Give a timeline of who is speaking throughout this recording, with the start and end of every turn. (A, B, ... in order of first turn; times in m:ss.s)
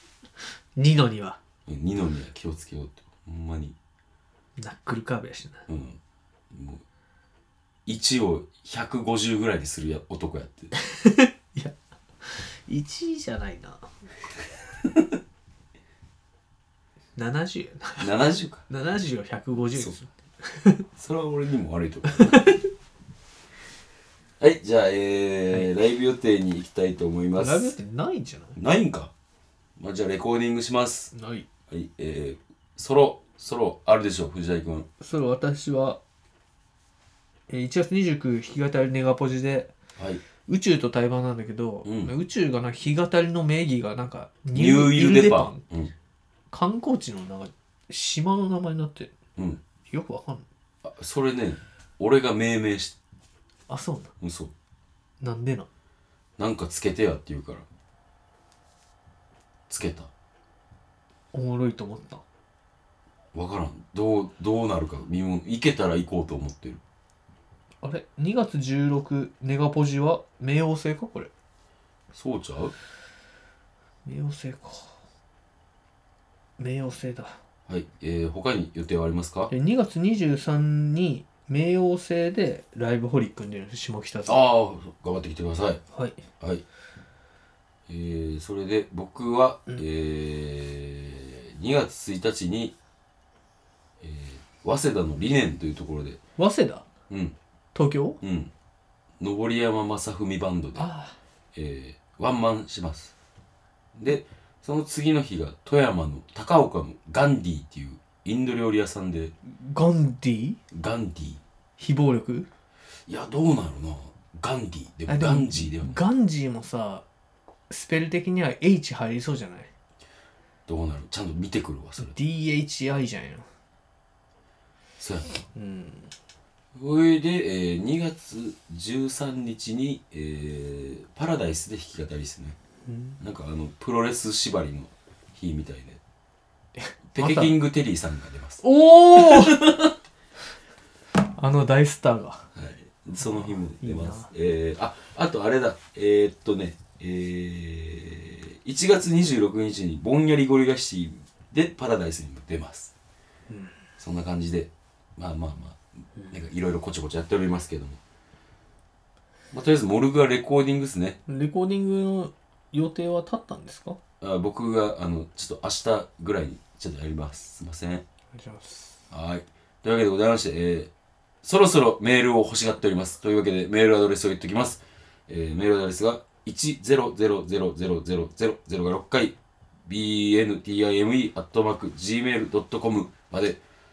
0:00.8-0:01.4 A
0:01.7-0:03.7 B
0:04.6-0:05.6 A
0:05.7-0:06.0 B
0:06.5-0:06.8 B
0:07.8-0:10.7 B
0:10.7-0:13.9 A
0:17.2-0:18.1 A
0:18.0-0:18.6 B
0:18.7-0:20.8 A
0:21.0-0:22.5 B
0:22.1-0:22.6 A
0:24.4-0:27.8 B
0:27.4-0:28.6 A
0:28.6-0:29.1 B
0:29.8-0:31.1 B
0:31.1-0:31.5 A
0:31.7-0:34.9 B
0:35.0-0:36.0 A
0:37.5-0:39.7 A
0:40.4-0:45.6 A
0:41.8-0:42.1 B
0:44.5-0:45.9 B
0:46.5-0:49.1 A
0:49.9-0:50.4 A
0:50.8-0:53.0 B
0:53.7-0:54.1 A
0:54.2-0:54.5 B
0:55.2-0:55.7 A
0:56.4-0:57.6 B
0:59.7-1:00.1 B
1:01.3-1:02.2 A
1:03.3-1:06.8 B
1:07.8-1:11.3 A
1:12.1-1:12.7 B
1:14.0-1:15.0 A
1:16.6-1:17.4 A
1:17.7-1:19.5 B
1:19.5-1:24.4 A
1:24.2-1:25.8 B
1:25.9-1:26.2 A
1:27.9-1:32.7 B
1:34.0-1:36.2 B
1:36.4-1:36.8 A
1:37.1-1:37.3 B
1:37.7-1:38.2 A
1:38.2-1:38.5 B
1:39.2-1:40.9 B
1:40.8-1:41.2 A
1:41.5-1:43.1 B
1:44.0-1:49.3 B
1:49.4-1:50.6 A
1:50.7-1:51.4 B
1:51.8-1:52.5 A
1:53.1-1:56.0 B
1:55.1-1:57.0 A
1:57.7-1:59.7 A
2:00.7-2:02.1 B
2:02.0-2:03.4 A
2:05.0-2:05.4 B
2:05.5-2:06.1 A
2:06.7-2:12.6 B
2:12.8-2:13.2 A
2:13.2-2:16.0 B
2:16.8-2:17.5 A
2:17.1-2:18.6 B
2:18.6-2:19.8 A
2:19.1-2:19.8 B
2:21.2-2:22.5 A
2:22.5-2:32.9 B
2:23.2-2:24.3 A
2:34.0-2:38.0 B
2:39.5-2:41.2 B
2:41.3-2:44.0 A
2:44.2-2:48.0 B
2:48.3-2:49.0 A
2:49.1-2:50.9 B
2:51.4-2:59.4 B
2:59.9-3:03.6 B